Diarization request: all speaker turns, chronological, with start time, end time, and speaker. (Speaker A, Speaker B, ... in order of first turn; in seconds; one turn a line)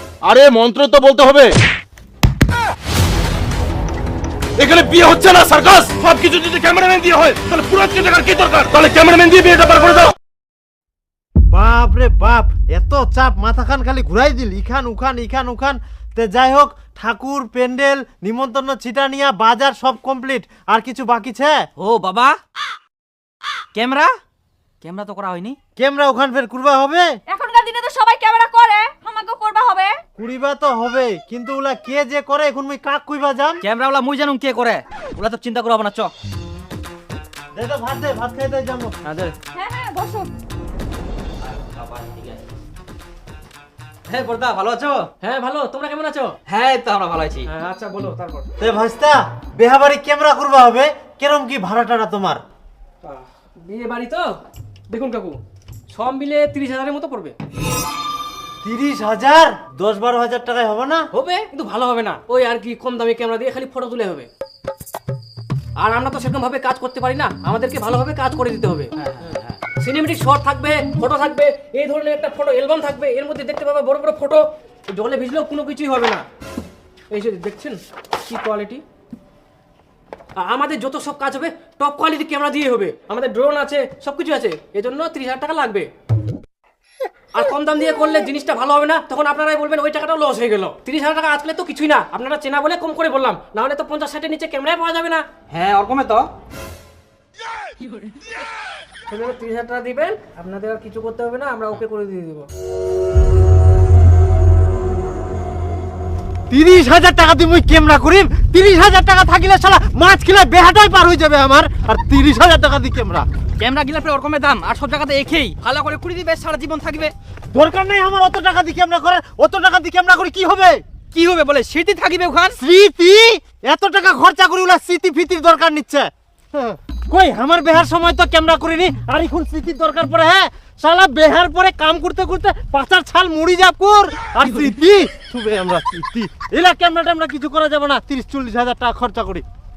Speaker A: 0.2-1.5
Speaker A: 4.6-10.1
Speaker B: 11.5-21.6
Speaker C: 21.8-22.4
Speaker C: 23.7-24.1
Speaker C: 24.8-25.6
Speaker B: 25.8-27.1
Speaker D: 27.3-30.0
Speaker B: 30.2-33.6
Speaker C: 33.6-36.1
Speaker B: 37.5-38.9
Speaker C: 39.0-39.3
Speaker D: 39.5-40.3
Speaker C: 41.4-42.4
Speaker C: 44.1-45.1
Speaker E: 45.2-46.4
Speaker C: 46.5-47.5
Speaker E: 47.5-48.5
Speaker B: 48.6-52.4
Speaker E: 53.0-55.4
Speaker E: 55.9-57.3
Speaker B: 58.6-61.1
Speaker E: 61.1-64.3
Speaker E: 65.8-68.9
Speaker C: 69.0-69.5
Speaker E: 69.7-76.2
Speaker E: 77.1-78.8
Speaker E: 80.4-85.9
Speaker E: 87.3-95.2
Speaker C: 95.5-96.3
Speaker E: 99.1-102.5
Speaker B: 106.5-113.3
Speaker C: 113.6-117.1
Speaker B: 117.5-120.8
Speaker C: 121.1-122.5
Speaker B: 122.6-139.4